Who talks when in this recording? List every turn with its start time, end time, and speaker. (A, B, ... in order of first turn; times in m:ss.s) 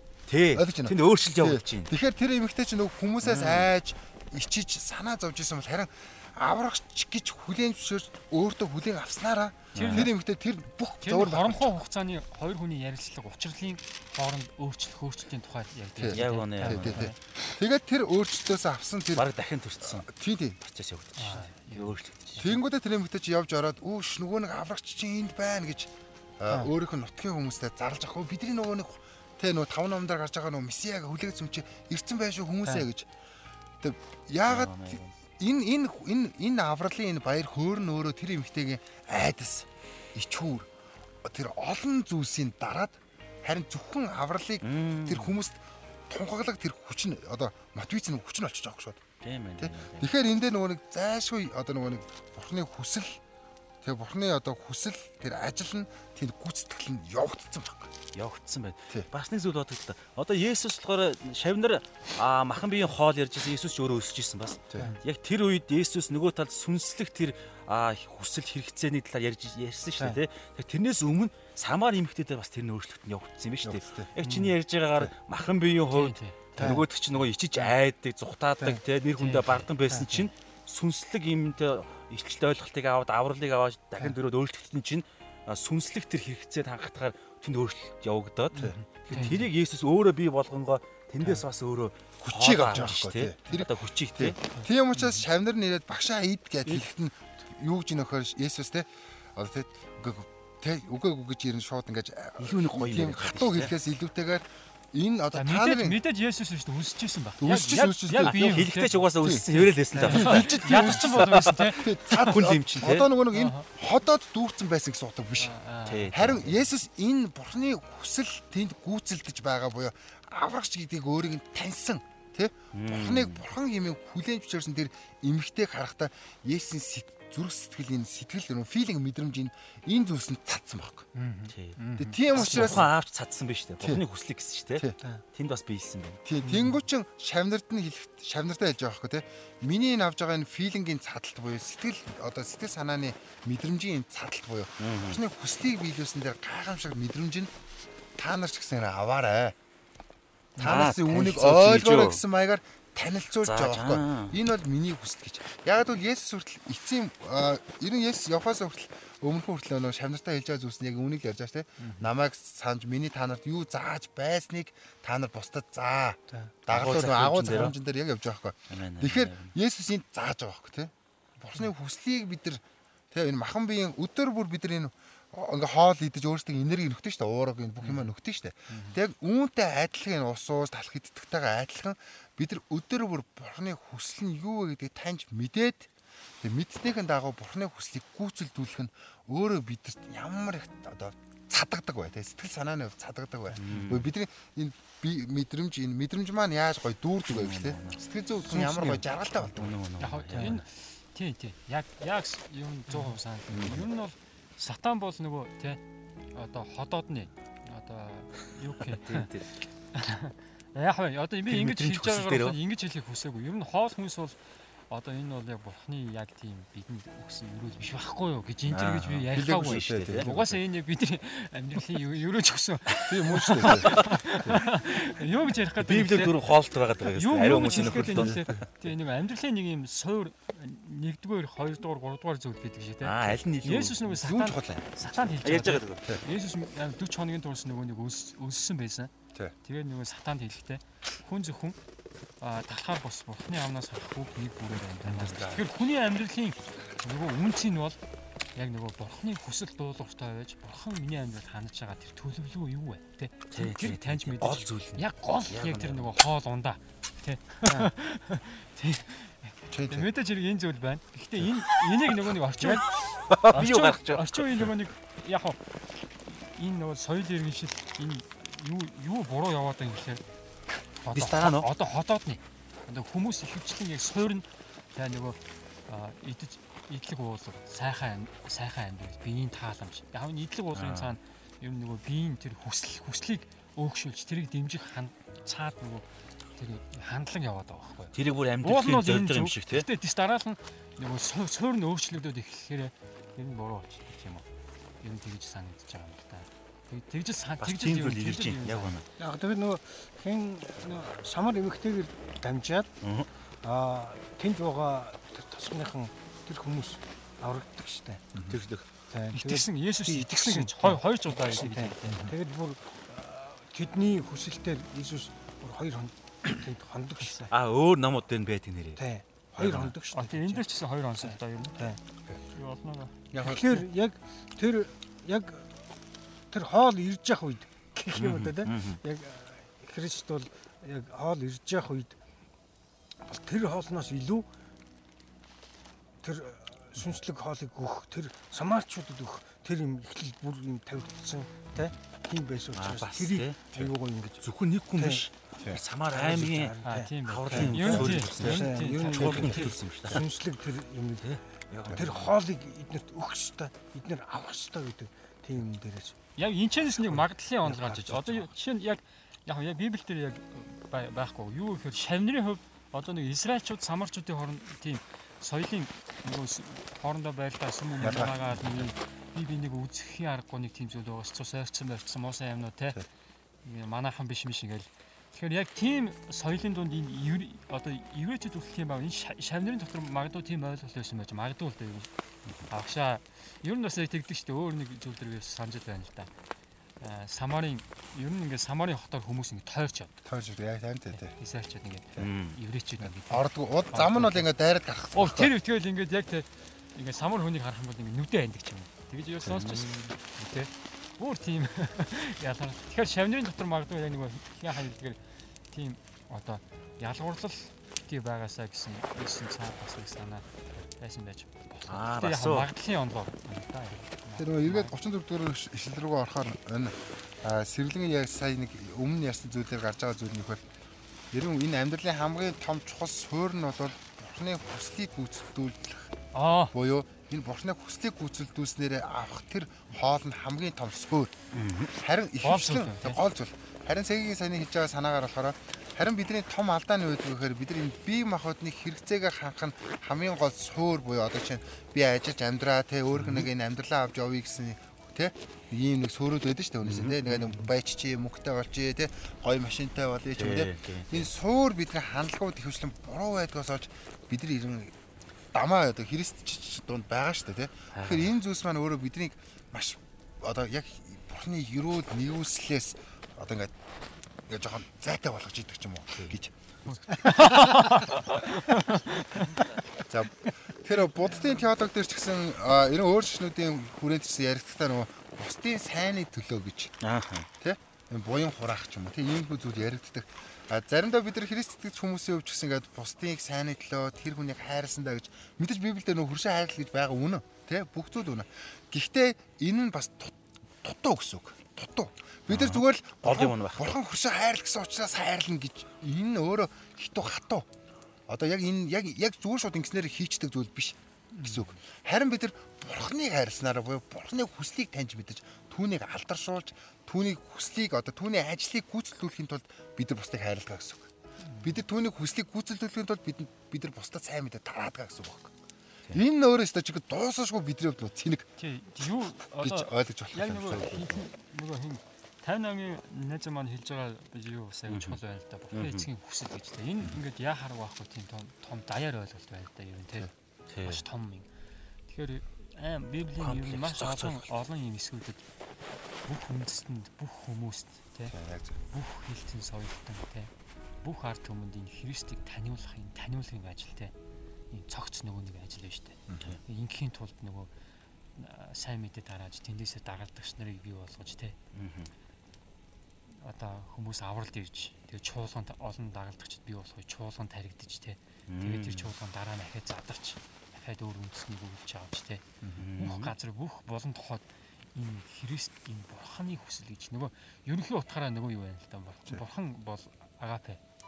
0:00.3-0:01.9 A
0:00.5-0:11.8 B
0:03.2-0:03.7 A
0:09.7-0:10.1 A
0:09.8-0:10.1 C
0:11.0-0:17.2 C
0:16.0-0:19.3 B
0:16.1-0:17.1 A
0:19.2-0:20.1 A
0:19.8-0:20.6 B
0:20.6-0:22.6 A
0:21.2-0:22.4 C
0:22.4-0:33.1 B
0:33.8-0:40.7 B
0:34.5-0:35.1 A
0:41.2-0:49.0 B
0:44.6-0:45.4 A
0:49.2-0:50.1 A
0:49.6-0:53.2 B
0:53.8-0:57.9 B
0:58.1-1:34.4 A
1:13.6-1:14.1 B
1:15.9-1:16.7 C
1:16.6-1:16.8 D
1:19.2-1:19.6 C
1:19.9-1:20.2 D
1:28.5-1:29.4 D
1:29.1-1:29.4 C
1:32.2-1:46.0 B
1:42.4-1:43.7 A
1:45.3-1:52.4 C
1:47.4-1:48.6 B
1:48.2-1:53.1 A
1:49.2-1:49.5 B
1:50.0-1:55.5 B
1:53.3-1:53.7 C
1:55.4-1:56.1 C
1:55.8-1:56.6 A
1:56.1-2:11.1 B
2:02.7-2:03.4 A
2:11.1-2:12.8 C
2:12.0-2:12.9 B
2:12.3-2:16.2 A
2:16.2-2:27.5 B
2:24.8-2:25.2 A
2:28.2-2:29.6 B
2:30.6-3:05.9 B
2:30.6-2:32.2 A
2:33.4-2:34.4 A
2:46.7-2:47.8 A
2:48.7-2:49.5 A
3:06.4-3:19.8 B
3:13.6-3:14.1 A
3:17.3-3:18.0 A
3:18.4-3:19.0 D
3:19.4-3:20.6 A
3:20.0-3:25.8 C
3:20.3-3:20.6 D
3:23.5-3:23.9 A
3:26.3-3:29.3 C
3:28.9-3:29.5 A
3:29.9-3:34.4 C
3:31.5-3:32.6 A
3:34.9-3:46.4 C
3:38.7-3:40.3 A
3:39.3-3:40.6 B
3:43.1-3:44.6 B
3:43.6-3:44.1 A
3:45.8-3:48.6 A
3:47.1-3:59.1 C
3:48.0-3:48.5 B
3:53.0-3:54.0 A
3:54.0-3:55.2 B
3:55.4-3:56.0 A
3:59.6-4:01.8 C
4:02.4-4:08.0 C
4:04.9-4:05.6 A
4:05.2-4:05.6 B
4:08.5-4:30.2 C
4:13.5-4:16.1 A
4:17.7-4:17.9 D
4:19.7-4:20.1 B
4:22.6-4:24.7 A
4:31.0-4:54.4 C
4:31.1-4:31.7 A
4:40.7-4:41.1 A
4:48.1-4:49.8 A
4:55.0-4:58.9 C
4:57.6-4:59.0 A
4:59.2-5:02.9 D
5:03.0-5:03.3 A
5:03.6-5:08.2 D
5:08.4-5:08.8 A
5:09.1-5:17.5 D
5:09.3-5:12.3 C
5:12.1-5:12.3 B
5:17.5-5:19.0 A
5:19.0-5:20.6 D
5:19.5-5:19.9 B
5:19.6-5:19.9 A
5:20.1-5:21.8 C
5:21.2-5:22.0 D
5:22.5-5:23.2 C
5:23.3-5:23.8 B
5:23.4-5:25.8 D
5:26.5-5:32.2 D
5:28.1-5:29.0 A
5:33.2-5:34.5 D
5:36.2-5:44.4 D
5:42.7-5:50.3 A
5:45.0-5:45.2 D
5:46.1-5:56.2 D
5:46.8-5:49.8 C
5:47.5-5:48.7 B
5:51.2-5:52.3 A
5:51.8-5:52.2 B
5:56.4-6:13.0 C
5:57.6-5:58.3 D
6:08.0-6:08.5 B
6:13.6-6:22.1 C
6:22.7-6:26.3 C
6:27.0-6:30.1 C
6:30.2-6:31.3 B
6:31.1-6:34.4 C
6:32.2-6:32.6 A
6:33.0-6:35.5 B
6:35.1-6:45.2 C
6:39.4-6:40.0 A
6:45.7-6:54.9 C
6:51.9-6:52.7 A
6:54.4-7:00.6 B
7:01.3-7:06.1 B
7:06.3-7:06.7 C
7:06.7-7:11.3 B
7:11.5-7:11.9 A
7:12.0-7:34.9 B
7:12.4-7:13.2 C
7:23.1-7:23.4 A
7:26.8-7:27.5 A
7:30.4-7:31.3 A
7:35.5-7:43.7 B
7:37.9-7:38.3 A
7:44.5-7:46.5 B
7:46.9-7:49.6 C
7:50.1-7:56.9 B
7:57.0-7:57.5 A
7:57.6-8:17.7 B
8:12.5-8:13.9 A
8:18.3-8:31.1 B
8:21.3-8:21.6 C
8:31.6-8:35.5 B
8:36.1-8:38.5 B
8:38.6-8:50.3 C
8:39.0-8:41.2 B
8:44.9-8:45.2 A
8:45.7-8:46.1 A
8:50.7-8:51.0 A
8:50.8-8:51.5 C
8:52.1-8:55.4 C
8:53.4-8:54.5 A
8:56.2-8:58.3 C
8:58.3-8:58.7 B
8:58.9-9:00.5 C
9:01.0-9:04.1 C
9:04.7-9:07.7 C
9:06.3-9:06.6 B
9:08.4-9:11.6 C
9:11.7-9:12.1 A
9:13.4-9:22.4 C
9:18.5-9:19.1 A
9:22.6-9:22.9 B
9:22.8-9:23.3 A
9:23.0-9:30.8 C